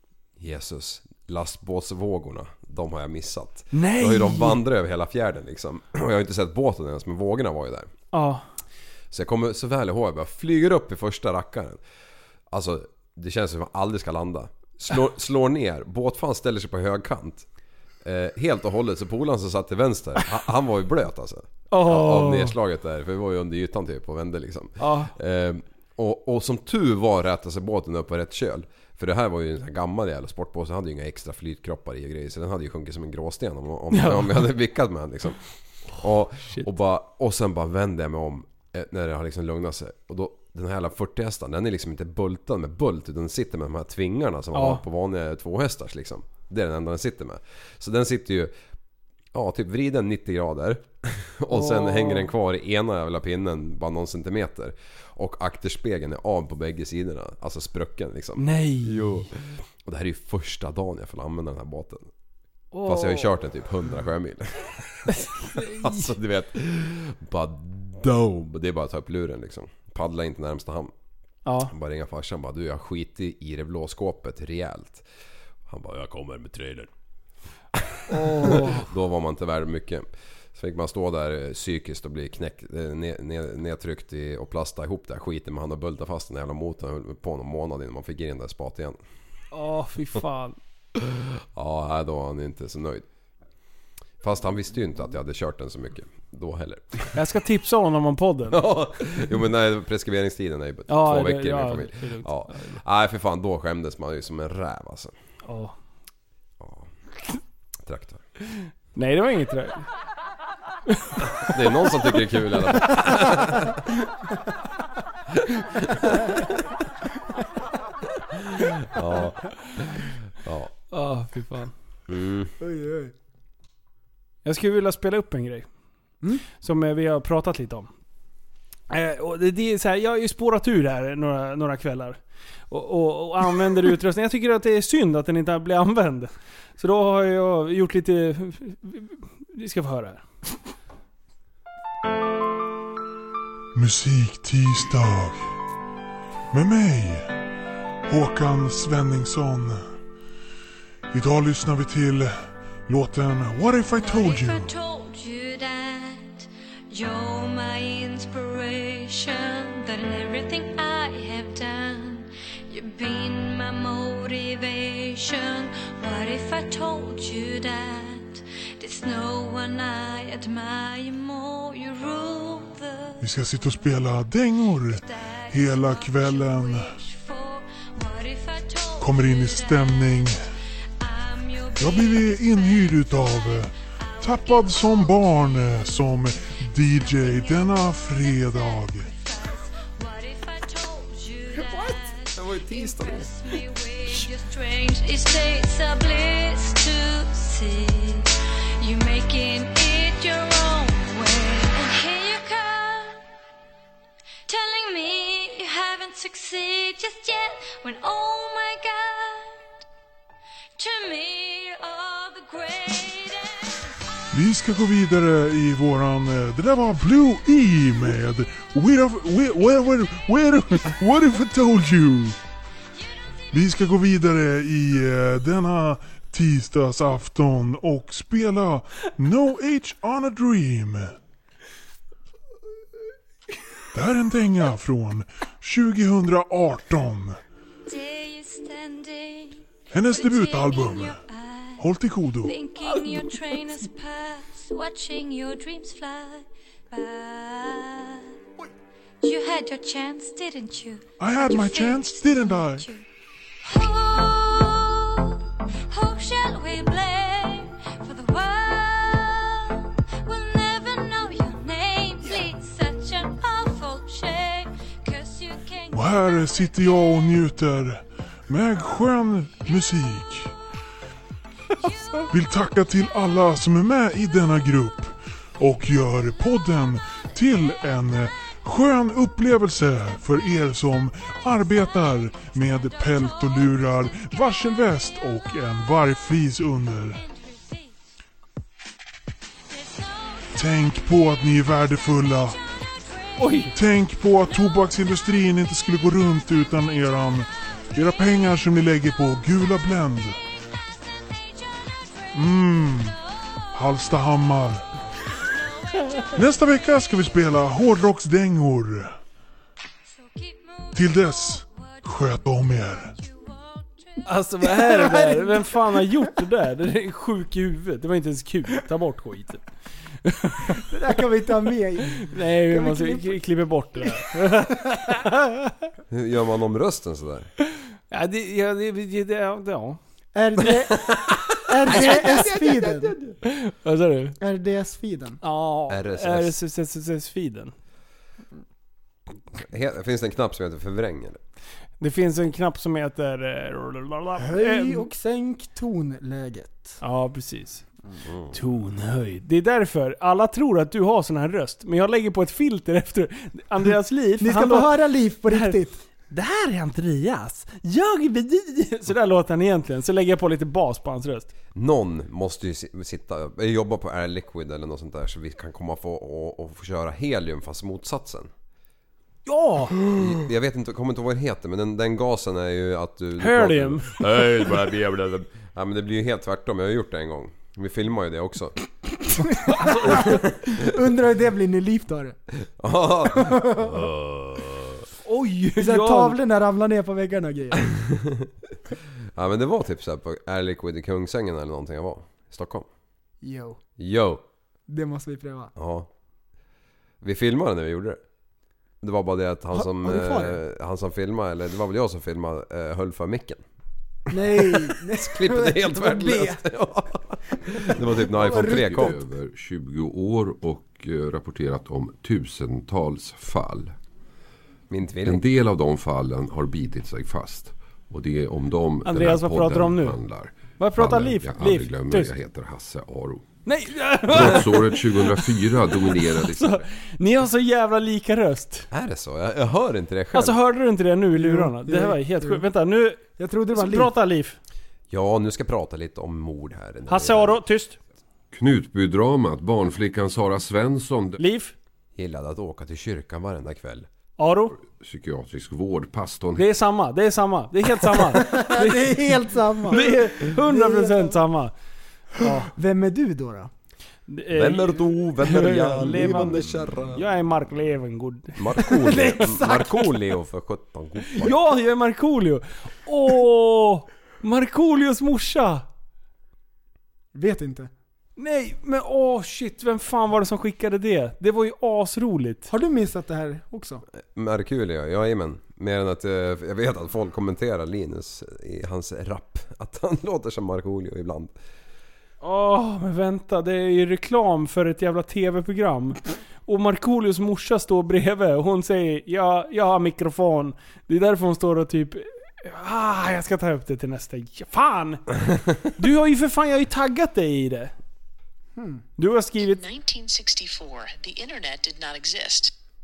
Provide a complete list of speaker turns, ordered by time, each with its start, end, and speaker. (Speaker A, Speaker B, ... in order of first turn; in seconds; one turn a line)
Speaker A: 0.4-7.9
Speaker B: 3.7-4.6
Speaker B: 8.1-8.4
Speaker A: 9.1-11.8
Speaker A: 12.5-17.5
Speaker A: 18.0-35.4
Speaker B: 21.7-22.6
Speaker B: 24.8-25.1
Speaker B: 33.9-34.5
Speaker A: 36.0-48.5
Speaker B: 36.4-36.7
Speaker B: 44.5-44.8
Speaker A: 49.3-62.1
Speaker B: 51.5-52.3
Speaker B: 58.4-59.3
Speaker B: 62.7-63.3
Speaker A: 62.9-70.9
Speaker B: 65.1-66.1
Speaker B: 71.5-71.7
Speaker A: 71.7-75.1
Speaker A: 75.7-76.9
Speaker A: 77.8-89.0
Speaker B: 78.1-78.9
Speaker B: 89.5-90.6
Speaker A: 91.0-93.1
Speaker A: 94.2-97.2
Speaker B: 97.2-98.6
Speaker A: 98.5-105.2
Speaker B: 100.9-102.8
Speaker B: 105.5-105.8
Speaker A: 106.6-106.9
Speaker A: 107.8-108.2
Speaker B: 108.6-109.9
Speaker B: 110.9-111.5
Speaker A: 111.2-113.8
Speaker A: 115.5-116.1
Speaker A: 118.3-120.7
Speaker B: 120.9-121.7
Speaker A: 122.1-122.5
Speaker C: 122.6-123.1
Speaker B: 124.5-125.7
Speaker B: 126.5-127.9
Speaker B: 128.9-132.2
Speaker B: 132.7-140.2
Speaker D: 143.8-145.5
Speaker D: 146.5-147.3
Speaker D: 148.1-149.8
Speaker D: 151.1-152.3
Speaker D: 152.9-154.7
Speaker E: 153.9-173.3
Speaker D: 173.2-176.9
Speaker E: 174.9-180.3
Speaker D: 179.0-180.4
Speaker E: 181.0-185.9
Speaker D: 181.8-189.1
Speaker E: 186.9-203.2
Speaker C: 191.6-191.9
Speaker A: 192.3-193.3
Speaker E: 204.5-209.7
Speaker E: 210.8-213.9
Speaker D: 214.3-222.4
Speaker E: 223.0-223.6
Speaker D: 223.5-231.1
Speaker D: 233.9-237.4
Speaker E: 237.9-241.8
Speaker D: 239.9-241.2
Speaker D: 241.8-242.6
Speaker E: 242.4-248.4
Speaker E: 249.2-253.0
Speaker D: 251.2-252.9
Speaker E: 253.6-266.7
Speaker D: 265.9-270.5
Speaker E: 271.8-272.3
Speaker D: 272.3-287.2
Speaker E: 282.4-285.2
Speaker E: 287.1-288.0
Speaker E: 289.7-290.5
Speaker D: 290.6-292.6
Speaker E: 292.5-293.6
Speaker B: 293.4-293.7
Speaker D: 293.7-300.4
Speaker E: 294.5-294.8
Speaker E: 301.0-303.6
Speaker D: 302.3-303.2
Speaker D: 303.7-304.8
Speaker E: 305.4-306.6
Speaker D: 306.4-309.1
Speaker E: 310.1-314.3
Speaker D: 310.9-313.1
Speaker B: 314.3-319.6
Speaker C: 314.6-315.7
Speaker B: 320.2-320.9
Speaker C: 320.8-323.4
Speaker B: 322.2-325.8
Speaker A: 326.1-327.5
Speaker B: 328.1-330.0
Speaker C: 330.4-333.2
Speaker A: 331.1-331.3
Speaker B: 331.9-334.4
Speaker C: 334.4-335.4
Speaker B: 335.4-337.7
Speaker A: 335.9-336.6
Speaker A: 339.6-341.4
Speaker B: 342.0-345.1
Speaker C: 344.4-347.0
Speaker B: 347.0-347.9
Speaker B: 348.5-354.9
Speaker C: 354.4-356.0
Speaker B: 355.5-355.8
Speaker B: 356.3-361.5
Speaker A: 361.8-368.5
Speaker B: 369.5-370.1
Speaker A: 370.1-378.8
Speaker B: 373.4-374.4
Speaker C: 379.5-382.4
Speaker B: 379.7-380.2
Speaker A: 380.1-380.8
Speaker A: 382.8-385.0
Speaker C: 383.3-384.1
Speaker B: 385.2-386.4
Speaker C: 385.8-387.9
Speaker A: 387.9-388.5
Speaker A: 389.4-392.9
Speaker C: 393.4-393.8
Speaker A: 394.0-394.4
Speaker C: 394.9-395.7
Speaker A: 395.8-396.1
Speaker A: 397.2-398.2
Speaker A: 399.0-403.6
Speaker C: 399.7-400.6
Speaker C: 404.3-406.6
Speaker A: 404.4-409.2
Speaker C: 407.7-409.2
Speaker F: 408.5-413.9
Speaker A: 414.9-415.5
Speaker F: 415.2-423.4
Speaker B: 419.1-420.2
Speaker B: 420.8-422.3
Speaker B: 423.7-425.4
Speaker F: 424.3-426.8
Speaker B: 426.2-428.9
Speaker A: 428.9-430.6
Speaker B: 430.3-434.6
Speaker C: 431.4-432.6
Speaker C: 433.4-434.1
Speaker A: 435.1-437.6
Speaker B: 437.1-438.0
Speaker F: 438.5-441.4
Speaker B: 441.4-441.7
Speaker A: 442.2-444.1
Speaker B: 444.4-444.8
Speaker F: 444.9-446.7
Speaker B: 446.6-451.7
Speaker C: 448.3-451.4
Speaker B: 452.4-452.7
Speaker C: 452.7-453.7
Speaker B: 454.3-459.3
Speaker A: 454.5-457.2
Speaker C: 456.2-457.0
Speaker A: 458.6-461.6
Speaker C: 458.9-460.1
Speaker B: 461.4-465.9
Speaker C: 467.3-467.9
Speaker B: 468.4-472.7
Speaker C: 472.7-474.0
Speaker A: 474.3-481.5
Speaker B: 482.4-497.9
Speaker C: 498.8-499.0
Speaker B: 499.2-499.8
Speaker G: 499.6-502.7